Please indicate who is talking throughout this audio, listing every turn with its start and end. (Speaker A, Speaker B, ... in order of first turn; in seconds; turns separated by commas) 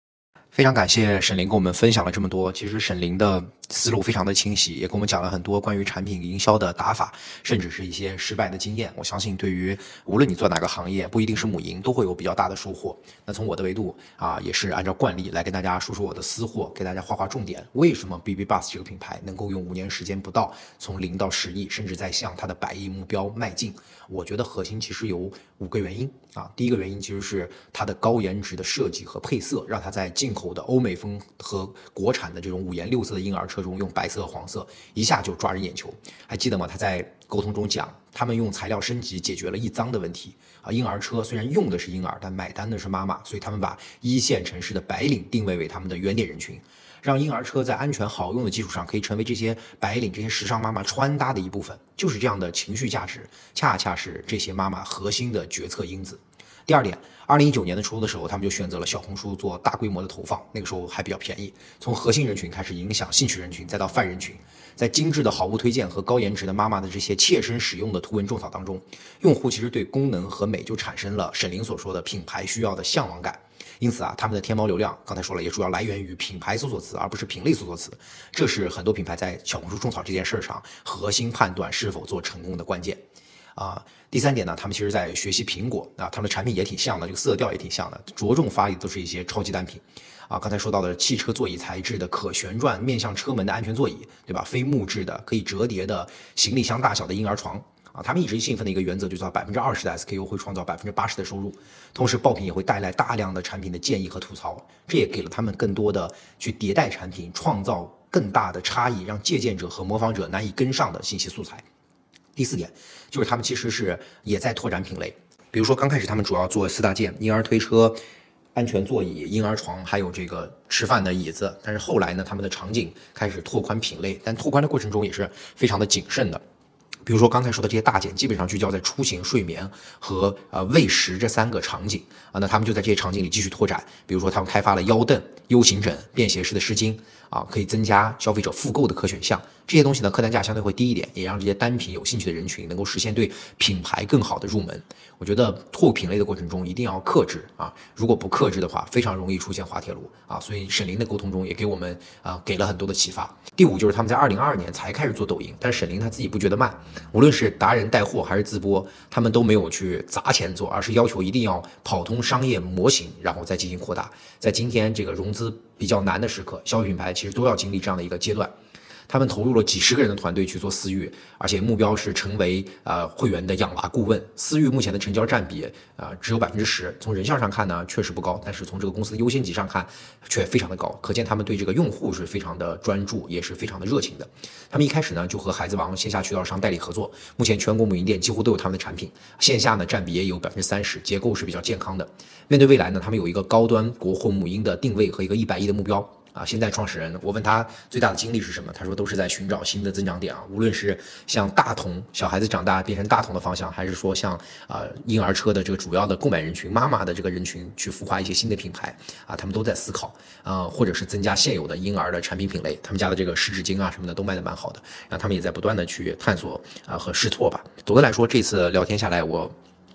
Speaker A: 0.5-83.0, Speaker A: 83.5-111.6, Speaker A: 112.3-118.0, Speaker A: 118.5-126.4, Speaker A: 127.0-168.5, Speaker A: 169.1-219.5